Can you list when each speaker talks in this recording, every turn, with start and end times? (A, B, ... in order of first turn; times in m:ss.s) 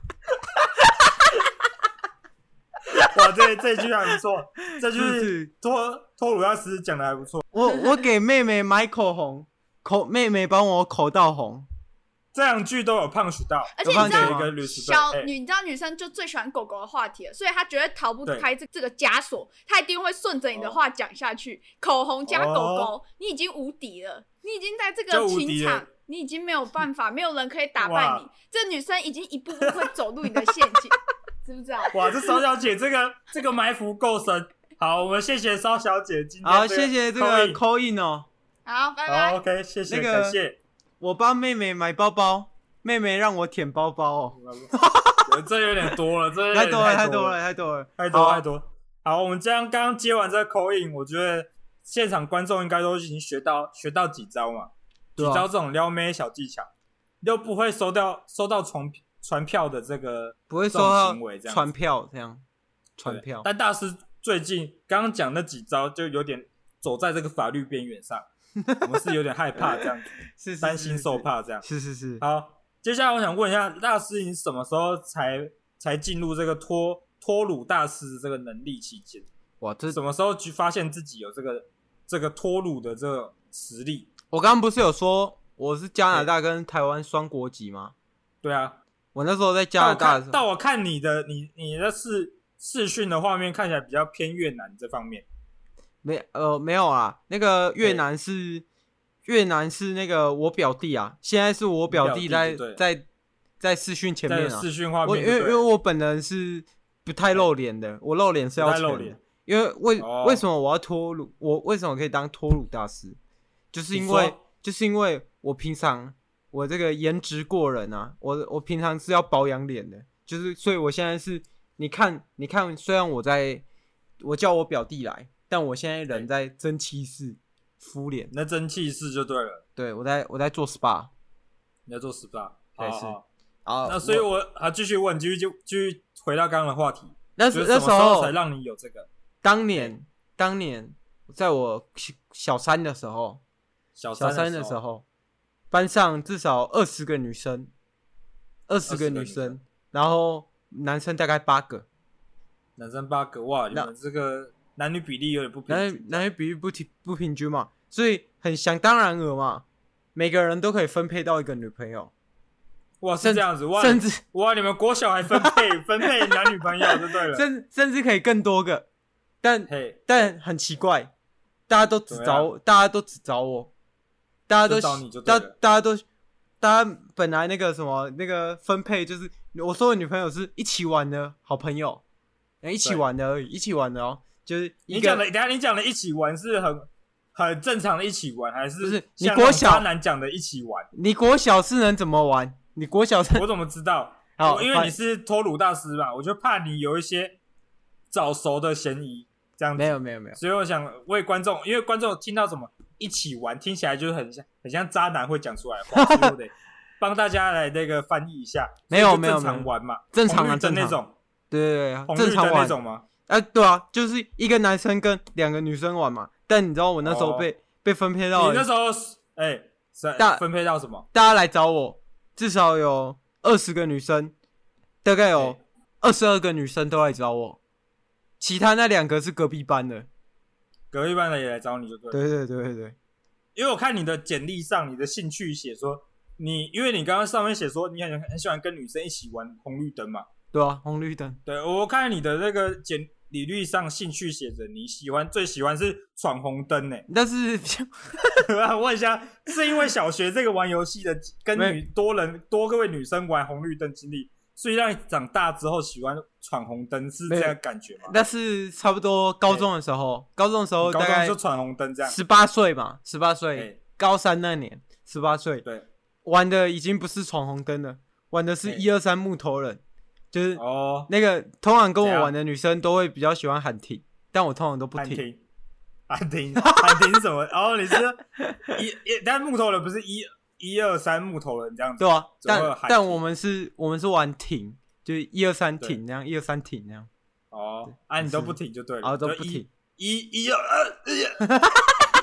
0:03.0-0:07.4 A
0:04.7-0:05.5 B
0:07.5-0:11.7 B
0:12.3-0:15.3 A
0:13.8-0:32.4 C
0:13.8-0:14.5 B
0:20.5-0:20.8 A
0:22.3-0:22.9 A
0:25.1-0:25.8 A
0:27.8-0:28.2 A
0:29.6-0:29.9 A
0:31.9-0:37.6 A
0:36.4-0:38.3 B
0:38.7-0:39.4 C
0:39.1-0:40.6 A
0:39.9-0:40.4 B
0:41.0-0:45.3 B
0:44.4-0:44.7 A
0:45.3-0:47.4 A
0:46.5-0:48.4 B
0:48.0-0:56.7 A
0:55.2-0:55.5 B
0:57.2-1:01.7 A
1:00.5-1:02.4 B
1:03.0-1:03.5 B
1:03.1-1:08.3 A
1:08.6-1:09.1 B
1:08.8-1:10.1 A
1:09.6-1:12.2 B
1:10.6-1:11.6 A
1:12.2-1:19.3 A
1:19.6-1:20.0 B
1:19.9-1:24.1 A
1:24.3-1:27.9 B
1:28.4-1:28.8 A
1:29.1-1:30.4 B
1:29.8-1:35.3 A
1:36.0-1:38.6 B
1:39.2-1:43.1 B
1:41.9-1:42.8 A
1:43.6-1:53.2 B
1:44.3-1:45.6 A
1:48.6-1:49.2 A
1:50.0-1:50.4 A
1:53.7-2:03.6 B
1:53.9-1:54.4 A
2:04.2-2:08.3 B
2:08.3-2:09.6 A
2:09.8-2:11.1 B
2:11.9-2:13.2 A
2:12.8-2:14.3 B
2:13.8-2:19.1 A
2:17.4-2:18.4 B
2:19.4-2:23.4 B
2:24.0-2:24.8 A
2:24.2-2:25.0 B
2:25.7-2:27.7 B
2:28.7-2:31.8 B
2:28.9-2:29.6 A
2:32.8-2:36.3 A
2:35.7-2:39.6 B
2:40.2-2:42.1 B
2:43.0-2:47.4 A
2:43.2-2:44.2 B
2:46.2-2:48.9 B
2:49.4-2:51.1 B
2:49.7-2:50.3 A
2:51.7-2:53.7 B
2:52.1-2:52.5 A
2:54.5-2:56.0 B
2:54.6-2:55.5 A
2:56.6-3:02.0 B
3:02.6-3:05.2 B
3:04.9-3:10.9 A
3:08.8-3:09.9 B
3:10.9-3:13.5 B
3:13.4-3:17.4 A
3:14.4-3:15.0 B
3:18.1-3:31.1 A
3:19.8-3:20.4 B
3:25.9-3:26.3 B
3:28.9-3:31.0 B
3:31.5-3:32.8 B
3:32.1-3:33.1 A
3:33.3-3:38.7 B
3:37.0-3:37.5 A
3:38.3-3:41.1 A
3:40.2-3:40.4 B
3:41.1-3:44.3 B
3:45.0-3:47.6 B
3:48.4-3:50.1 B
3:50.9-3:52.2 A
3:52.1-3:53.0 B
3:53.6-4:00.3 A
4:00.5-4:01.4 B
4:01.5-4:07.1 A
4:07.1-4:08.5 B
4:08.4-4:18.1 A
4:11.6-4:11.8 B
4:17.3-4:21.4 B
4:20.8-4:22.2 A
4:22.1-4:25.6 B
4:26.2-4:29.8 B
4:30.3-4:35.2 B
4:30.6-4:31.1 A
4:32.0-4:32.3 A
4:35.0-4:35.4 A
4:36.1-4:43.2 A
4:36.6-4:37.0 B
4:38.4-4:38.7 B
4:42.0-4:47.1 B
4:47.5-4:51.4 A
4:48.2-4:49.7 B
4:51.4-4:51.9 B